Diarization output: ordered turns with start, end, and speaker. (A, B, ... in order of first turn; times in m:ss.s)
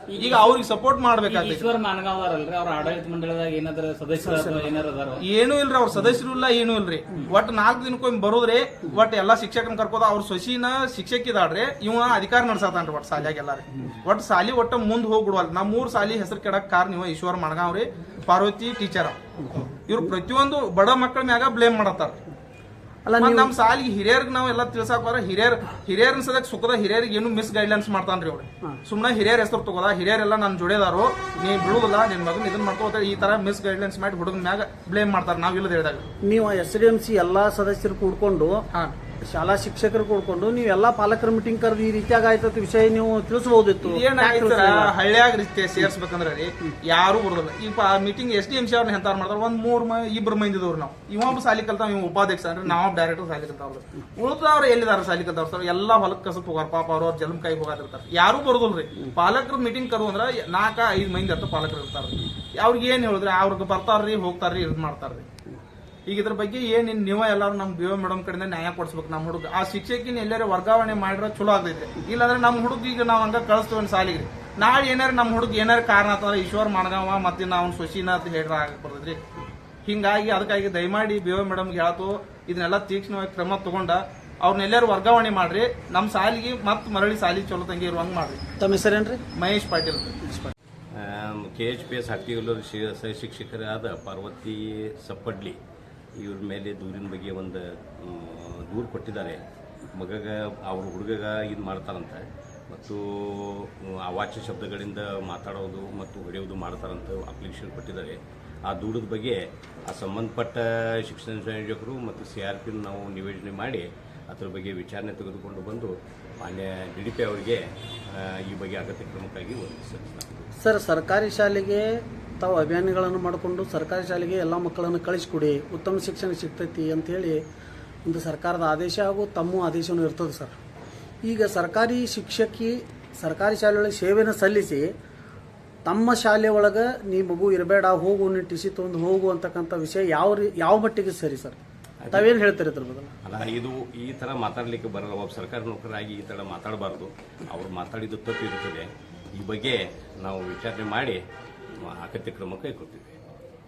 0:00.1-0:00.5 A
0:00.2-0:01.8 B
0:01.2-0:05.2 A
0:04.2-0:04.7 C
0:05.2-0:19.2 B
0:19.9-0:22.2 B
0:23.0-0:23.5 C
0:23.2-0:36.1 B
0:36.2-0:38.6 C
0:39.3-0:44.9 C
0:43.8-1:05.3 B
1:06.1-1:19.2 B
1:19.8-1:28.4 B
1:28.6-1:29.2 C
1:29.4-1:30.2 B
1:30.2-1:30.5 C
1:31.0-1:35.6 D
1:36.2-2:00.5 D
2:00.6-2:07.4 C
2:08.0-2:10.6 C
2:11.2-2:14.9 C
2:15.8-2:21.6 C
2:22.0-2:22.3 D
2:22.1-2:23.1 C
2:23.2-2:31.2 D
2:31.8-2:33.2 D